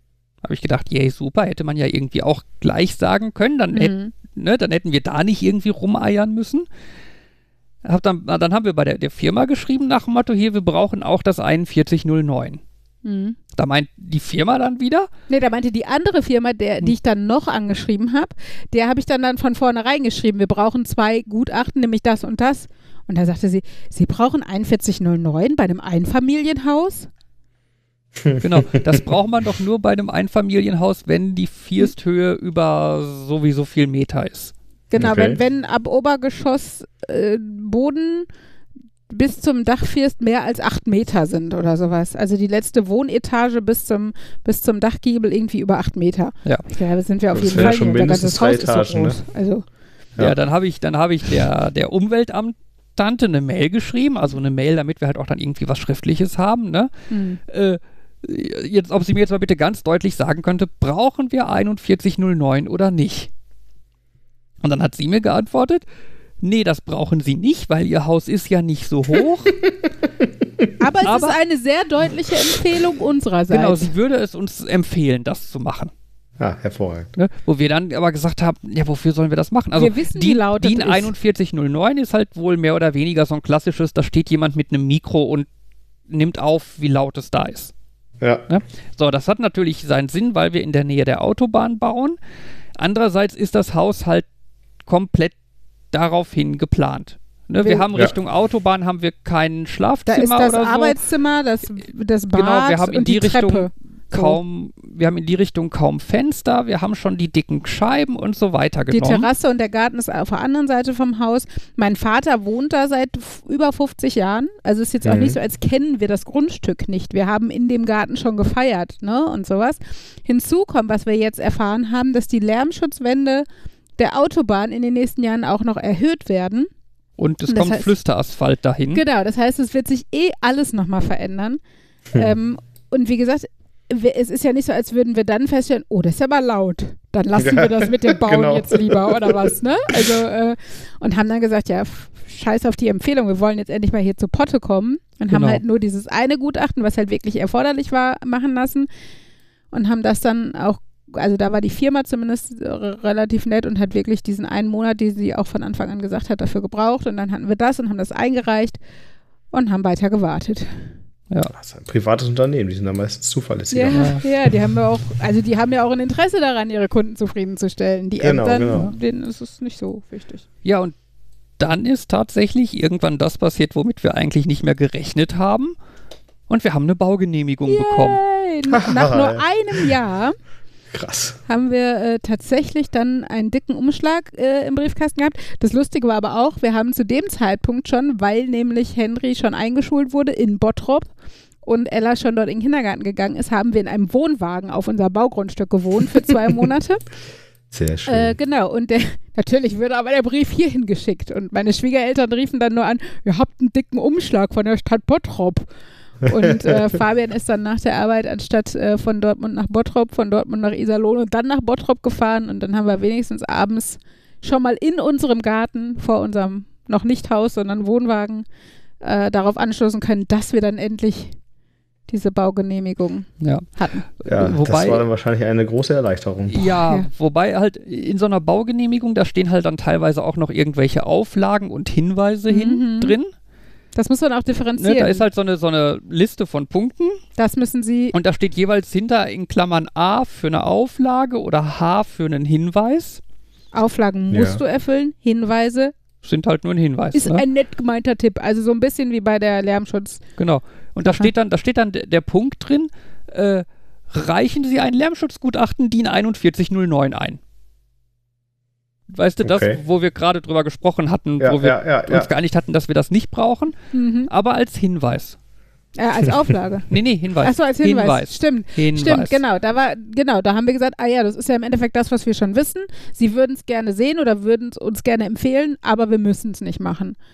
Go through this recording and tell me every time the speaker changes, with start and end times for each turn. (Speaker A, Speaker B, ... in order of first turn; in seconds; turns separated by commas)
Speaker A: 0.4-6.7, Speaker B: 3.7-4.1, Speaker A: 7.8-12.6, Speaker B: 13.0-13.4, Speaker A: 13.5-15.1, Speaker B: 15.3-27.1, Speaker C: 28.1-29.0, Speaker A: 28.4-34.5, Speaker B: 34.9-38.3, Speaker C: 35.0-35.4, Speaker B: 39.1-49.6, Speaker C: 47.3-49.2, Speaker A: 50.2-56.9, Speaker B: 57.1-57.4, Speaker A: 57.5-63.3, Speaker A: 64.6-65.8, Speaker A: 66.4-69.6, Speaker B: 70.8-73.9, Speaker A: 71.0-71.4, Speaker A: 73.5-75.9, Speaker C: 76.4-77.1, Speaker A: 77.2-85.5, Speaker B: 79.7-81.1, Speaker A: 86.1-87.7, Speaker A: 88.5-92.2, Speaker A: 92.8-94.3, Speaker A: 94.8-95.3, Speaker A: 95.9-101.0, Speaker B: 97.6-97.8, Speaker B: 100.1-104.4, Speaker A: 102.3-109.3, Speaker B: 108.9-123.5, Speaker C: 115.0-115.4, Speaker B: 124.0-126.7, Speaker A: 127.2-129.0, Speaker B: 127.5-127.9, Speaker B: 128.9-131.6, Speaker B: 132.1-148.9, Speaker C: 137.3-139.5, Speaker A: 145.3-145.6, Speaker B: 149.7-158.8, Speaker B: 159.5-160.9, Speaker C: 161.5-164.2, Speaker B: 163.7-170.4, Speaker A: 163.9-164.2, Speaker C: 168.2-168.9, Speaker A: 170.6-170.9, Speaker A: 171.6-175.7, Speaker A: 176.5-178.2, Speaker B: 177.7-180.3, Speaker C: 178.7-179.9, Speaker C: 180.9-181.4, Speaker B: 181.5-191.1, Speaker B: 191.6-197.0, Speaker C: 197.7-198.3, Speaker B: 198.1-205.7, Speaker B: 206.2-218.4, Speaker C: 206.4-206.8, Speaker B: 219.0-221.3, Speaker B: 222.1-224.1, Speaker A: 223.4-223.7, Speaker A: 224.2-225.0, Speaker C: 224.3-226.7, Speaker A: 226.5-233.3, Speaker B: 226.6-227.1, Speaker B: 232.5-233.2, Speaker B: 233.9-235.2, Speaker A: 234.8-237.2, Speaker B: 237.4-238.1, Speaker A: 238.1-243.2, Speaker B: 243.7-245.9, Speaker C: 244.3-244.6, Speaker A: 246.2-247.4, Speaker B: 247.1-250.2, Speaker A: 250.4-257.4, Speaker A: 259.1-263.7, Speaker C: 259.4-259.8, Speaker C: 261.4-262.3, Speaker B: 263.9-264.3, Speaker A: 264.3-265.4, Speaker B: 266.0-277.1, Speaker A: 266.9-269.4